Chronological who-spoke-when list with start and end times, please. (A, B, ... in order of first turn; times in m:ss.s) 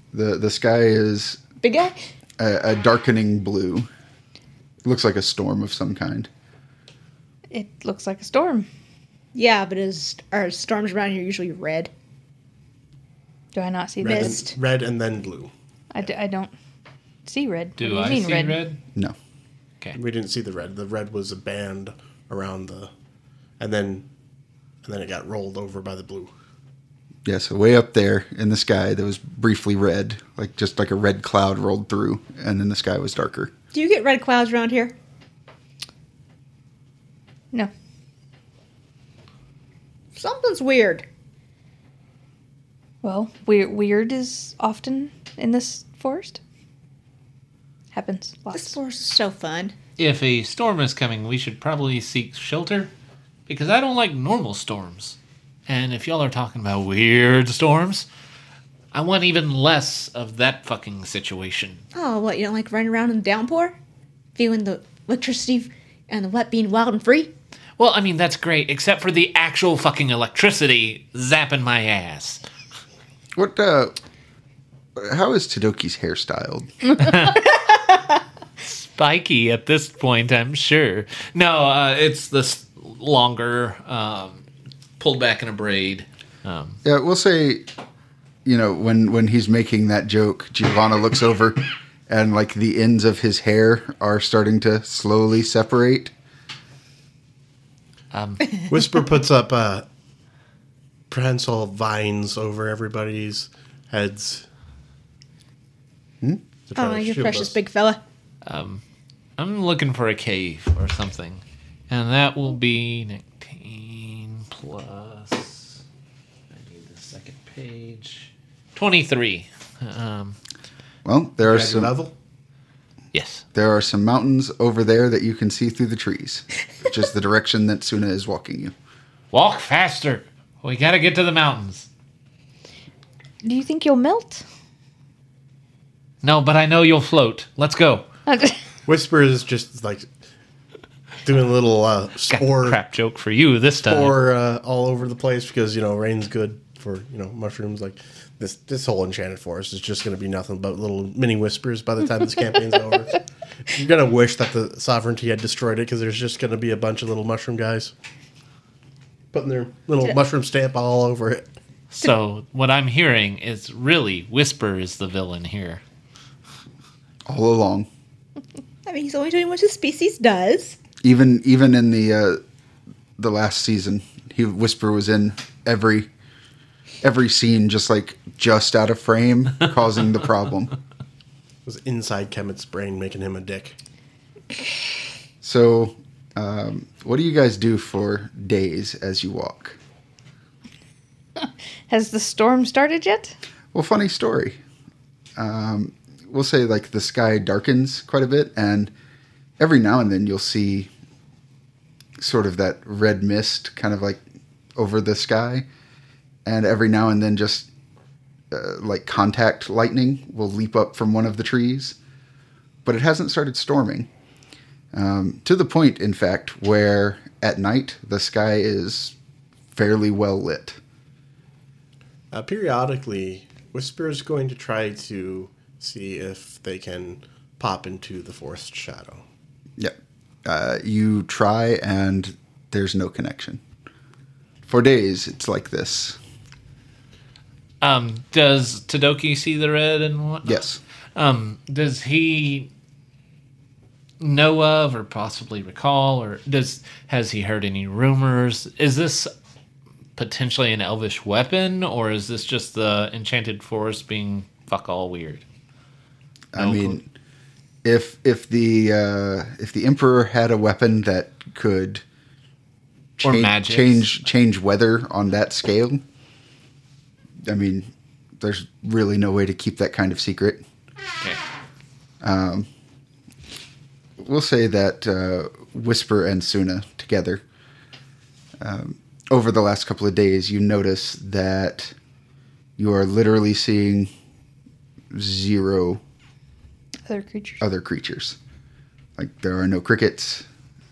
0:00.1-0:01.4 A
0:01.6-0:02.0 B
0:02.4-0:03.9 A
0:04.8-0:06.3 A
0:07.5-0:08.7 C
0:09.4-0:11.9 B
0:13.6-0:14.4 C
0:14.0-0:15.5 D
0:14.1-0:14.6 B
0:15.9-0:16.5 C
0:17.3-0:18.6 C
0:17.8-0:18.8 E
0:19.9-0:22.9 D
0:23.6-0:24.1 D
0:24.8-0:26.3 D
0:27.2-0:33.5 A
0:33.7-0:34.9 B
0:40.2-0:41.1 B
0:43.0-0:46.4 C
0:47.9-0:48.8 C
0:48.5-0:49.8 B
0:50.0-0:52.9 E
0:53.5-0:58.1 E
0:58.9-1:01.8 E
1:01.9-1:03.8 B
1:04.4-1:07.3 B
1:07.8-1:12.4 E
1:13.4-1:14.0 A
1:15.0-1:17.0 A
1:17.0-1:17.6 E
1:18.6-1:24.4 E
1:25.0-1:26.8 E
1:26.8-1:27.6 A
1:28.4-1:36.1 A
1:38.1-1:38.6 E
1:38.7-1:39.9 D
1:41.1-1:44.5 D
1:46.7-1:47.6 D
1:46.8-1:48.0 B
1:48.4-1:48.8 E
1:49.4-1:55.8 E
1:56.5-2:00.4 E
2:01.0-2:01.9 A
2:01.4-2:02.1 D
2:03.1-2:03.4 E
2:03.5-2:08.7 A
2:09.3-2:11.9 E
2:13.4-2:14.4 C
2:16.2-2:18.1 E
2:18.3-2:18.6 C
2:18.9-2:20.1 D
2:21.2-2:22.8 D
2:22.3-2:24.2 E
2:23.8-2:37.9 D
2:39.3-2:41.5 D
2:41.9-2:45.8 E
2:47.3-2:47.9 A
2:48.9-2:50.8 B
2:51.0-2:52.4 A
2:53.2-2:56.1 A
2:57.0-3:00.7 A
3:01.6-3:03.8 D
3:05.4-3:09.8 A
3:11.9-3:13.4 C
3:13.7-3:14.6 A
3:15.4-3:18.9 A
3:19.6-3:20.9 A
3:22.2-3:24.2 A
3:24.8-3:25.6 A
3:26.4-3:27.7 A
3:28.5-3:32.0 A
3:32.8-3:34.1 A
3:34.9-3:39.1 A
3:39.7-3:40.8 A
3:42.3-3:49.2 D
3:49.8-3:53.6 A
3:54.6-3:56.2 A
3:57.8-4:00.6 E
4:00.4-4:00.8 A
4:01.2-4:02.7 E
4:04.2-4:09.3 E
4:10.2-4:15.4 E
4:16.5-4:17.1 A
4:16.6-4:17.0 E
4:17.8-4:22.0 A
4:23.2-4:26.0 A
4:23.2-4:24.1 E
4:27.4-4:30.6 A
4:32.2-4:32.7 A
4:34.2-4:37.4 A
4:38.6-4:41.9 A
4:42.8-4:44.1 A
4:45.1-4:46.0 A
4:47.1-4:47.6 C
4:47.6-4:48.4 A
4:49.2-4:50.4 A